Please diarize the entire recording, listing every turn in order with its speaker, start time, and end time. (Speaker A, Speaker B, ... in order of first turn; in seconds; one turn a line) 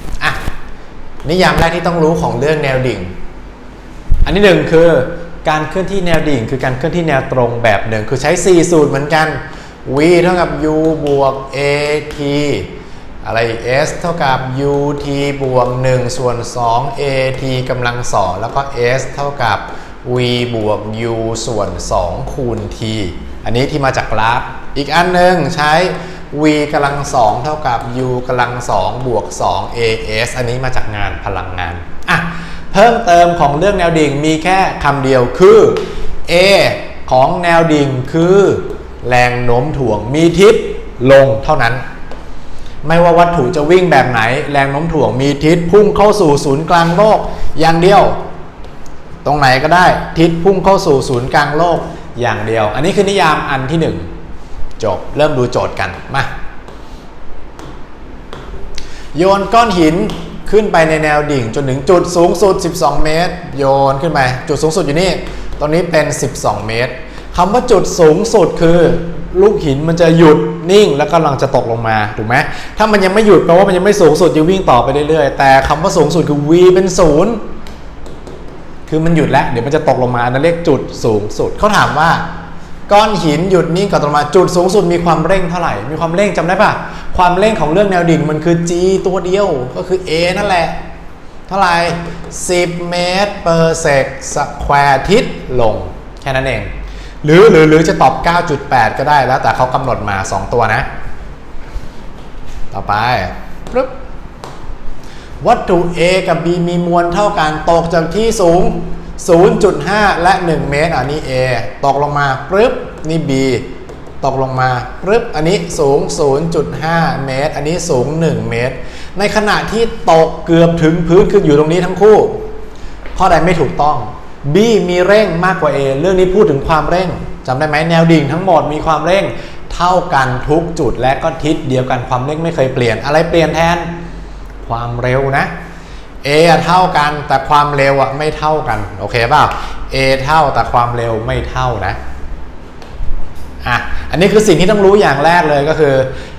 Speaker A: 1.2-3.1
Speaker A: 4.2-12.7
Speaker A: 13.2-41.8
Speaker A: 42.8-48.2
Speaker A: 49.2-54.1
Speaker A: 54.8-56.3
Speaker A: 59.1-77.4
Speaker A: 78.9-82.2
Speaker A: 82.9-90.8
Speaker A: 91.5-96.7
Speaker A: 97.2-100.9
Speaker A: 102.7-103.9
Speaker A: 105.4-113.7
Speaker A: 114.2-122.4
Speaker A: 123.2-133.9
Speaker A: 134.6-135.5
Speaker A: 136.2-142.0
Speaker A: 143.6-146.1